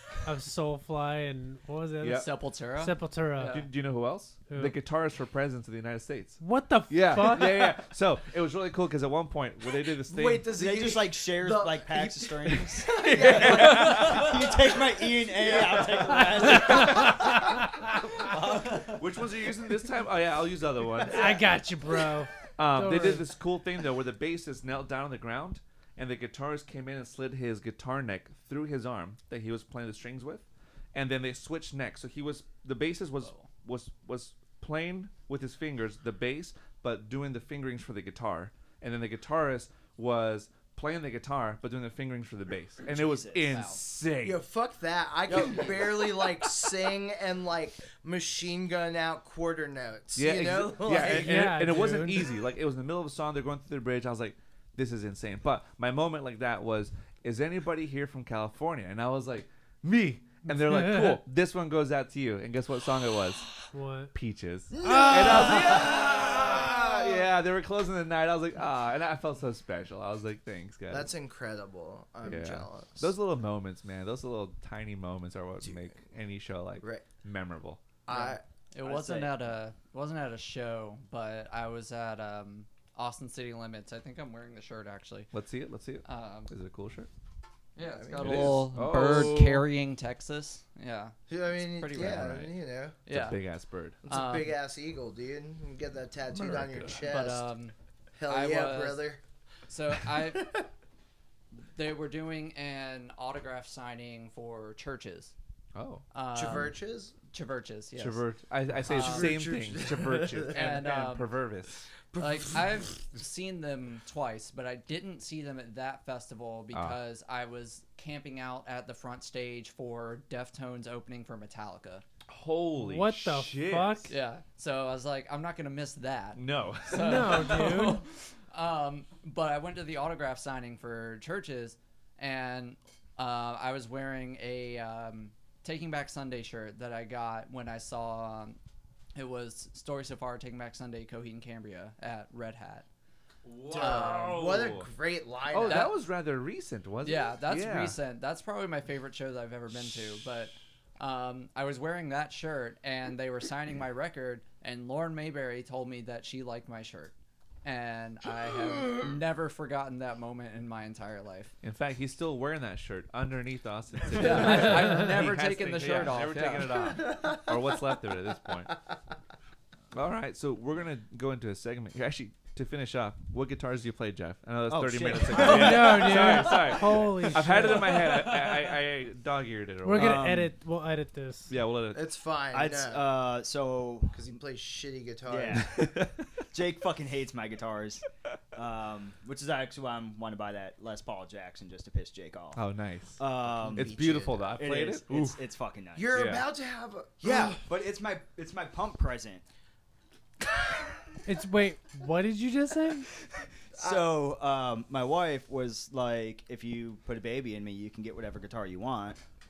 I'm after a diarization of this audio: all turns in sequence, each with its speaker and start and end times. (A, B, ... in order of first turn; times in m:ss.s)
0:00.2-0:03.6 A
0:02.1-0:03.7 B
0:03.5-0:10.5 C
0:04.5-0:04.7 A
0:06.4-0:07.8 A
0:10.1-0:16.6 D
0:10.5-0:17.4 E
0:12.9-0:14.5 C
0:16.4-0:17.3 C
0:16.4-0:18.2 A
0:18.0-0:21.4 C
0:18.1-0:19.0 E
0:21.0-0:23.3 A
0:22.5-0:44.4 C
0:33.2-0:33.5 B
0:42.8-0:43.7 E
0:43.5-0:43.8 B
0:44.2-0:51.5 D
0:45.3-0:45.9 E
0:50.2-1:03.6 C
0:51.0-0:52.3 A
1:00.5-1:01.2 A
1:03.7-1:04.1 A
1:04.1-1:11.1 C
1:04.7-1:06.0 E
1:04.8-1:05.8 A
1:05.2-1:07.3 D
1:10.9-1:13.1 D
1:12.2-1:17.8 C
1:15.6-1:15.9 D
1:18.0-1:18.4 D
1:18.1-1:25.3 B
1:18.8-1:19.3 E
1:25.3-1:27.1 C
1:26.0-1:26.5 B
1:27.8-1:32.4 B
1:27.8-1:28.7 D
1:28.2-1:29.6 C
1:31.3-1:33.0 D
1:32.0-1:32.5 C
1:33.1-1:33.4 B
1:33.1-1:34.0 C
1:34.0-1:37.4 D
1:34.1-1:34.5 B
1:36.3-1:37.0 C
1:37.0-1:37.7 B
1:38.2-1:39.2 D
1:38.3-1:39.0 B
1:39.7-1:40.6 B
1:40.3-1:40.6 D
1:41.5-1:45.3 B
1:45.7-1:46.0 C
1:46.1-1:46.8 B
1:46.3-1:47.1 D
1:47.3-1:48.2 B
1:48.0-1:51.9 C
1:48.8-1:50.7 D
1:48.9-1:49.4 B
1:50.5-1:51.3 B
1:52.1-1:52.8 D
1:52.2-2:02.0 B
1:56.7-1:57.0 C
2:02.3-2:04.1 C
2:02.8-2:04.1 A
2:04.1-2:18.6 B
2:06.4-2:07.6 C
2:06.9-2:08.0 A
2:19.1-2:22.8 B
2:23.4-2:24.9 C
2:23.7-2:25.9 D
2:23.7-2:24.3 B
2:25.5-2:28.0 C
2:25.7-2:25.9 B
2:27.0-2:37.1 B
2:37.6-2:41.5 B
2:41.6-2:48.8 C
2:44.1-2:47.0 B
2:47.1-2:47.6 D
2:49.9-3:00.2 C
2:54.7-2:56.7 E
2:55.3-2:58.2 A
2:59.8-3:01.5 A
2:59.9-3:00.5 E
3:01.5-3:02.0 C
3:01.9-3:03.1 D
3:02.5-3:04.2 E
3:04.1-3:05.8 D
3:05.3-3:06.0 E
3:05.5-3:06.2 C
3:06.5-3:12.6 E
3:12.5-3:15.4 C
3:13.2-3:13.9 E
3:13.5-3:14.6 D
3:14.6-3:16.3 E
3:16.0-3:17.6 D
3:16.1-3:16.4 C
3:17.2-3:19.4 E
3:21.2-3:23.1 A
3:23.7-3:29.2 E
3:23.7-3:24.1 D